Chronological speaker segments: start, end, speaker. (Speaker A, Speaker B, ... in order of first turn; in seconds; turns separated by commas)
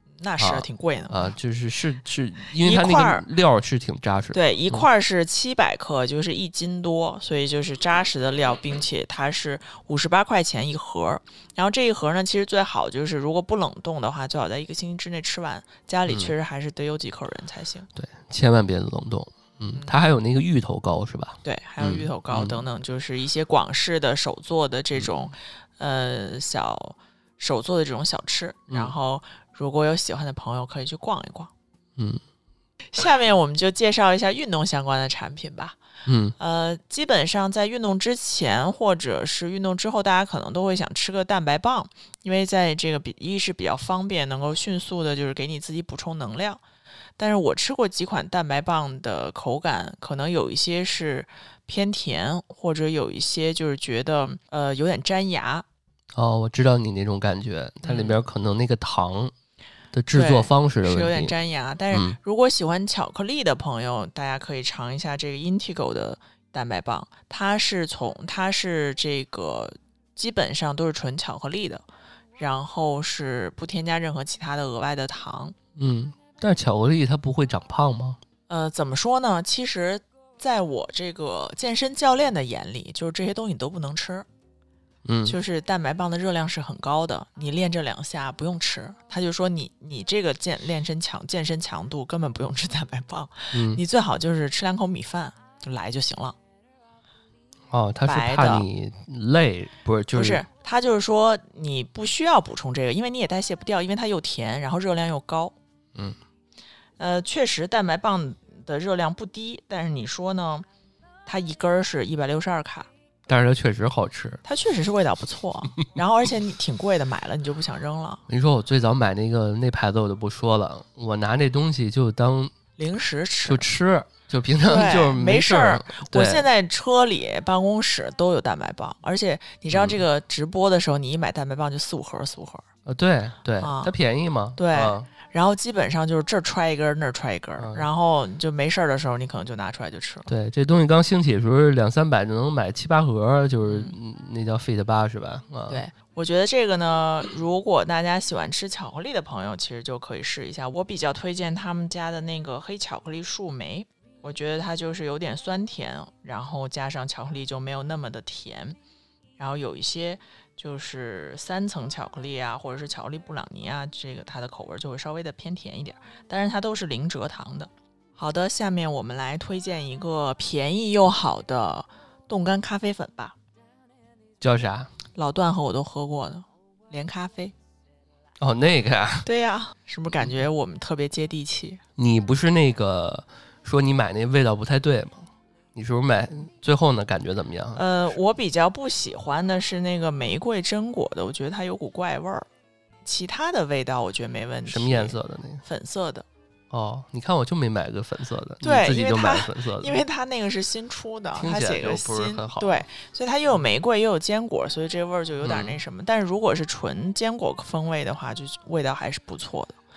Speaker A: 0.2-1.3, Speaker B: 0.4-4.8, Speaker A: 2.6-3.2, Speaker A: 4.3-17.9, Speaker B: 17.9-22.6, Speaker A: 21.4-31.5, Speaker B: 32.0-32.2, Speaker A: 32.9-35.8, Speaker B: 36.0-36.4, Speaker A: 36.4-46.6, Speaker A: 47.2-55.6, Speaker B: 56.1-59.3, Speaker A: 57.8-58.2, Speaker B: 59.9-61.3, Speaker A: 60.1-71.8, Speaker B: 61.9-62.2, Speaker A: 72.4-75.5, Speaker B: 75.8-78.2, Speaker A: 78.5-84.2, Speaker B: 85.0-85.3, Speaker A: 85.2-96.3, Speaker B: 93.5-93.8, Speaker B: 97.7-100.4, Speaker A: 98.0-98.7, Speaker A: 100.1-105.5, Speaker A: 107.0-110.7, Speaker A: 111.2-112.9, Speaker B: 113.3-114.4, Speaker A: 114.4-118.2, Speaker B: 118.3-122.5, Speaker A: 122.8-123.7, Speaker B: 123.5-126.5, Speaker A: 124.7-132.7, Speaker B: 129.7-130.0, Speaker B: 132.8-135.1, Speaker A: 133.6-133.9, Speaker A: 134.6-140.3, Speaker B: 137.6-137.9, Speaker B: 140.3-145.8, Speaker A: 143.6-143.9, Speaker A: 145.7-158.8, Speaker A: 159.4-173.3, Speaker B: 174.4-174.9, Speaker A: 175.2-177.5, Speaker B: 178.4-179.3, Speaker A: 179.2-181.8, Speaker B: 182.0-187.8, Speaker A: 187.7-192.4, Speaker A: 193.0-196.2, Speaker B: 194.7-195.6, Speaker B: 196.7-200.0, Speaker A: 198.6-209.8, Speaker B: 201.3-202.8, Speaker B: 205.4-205.8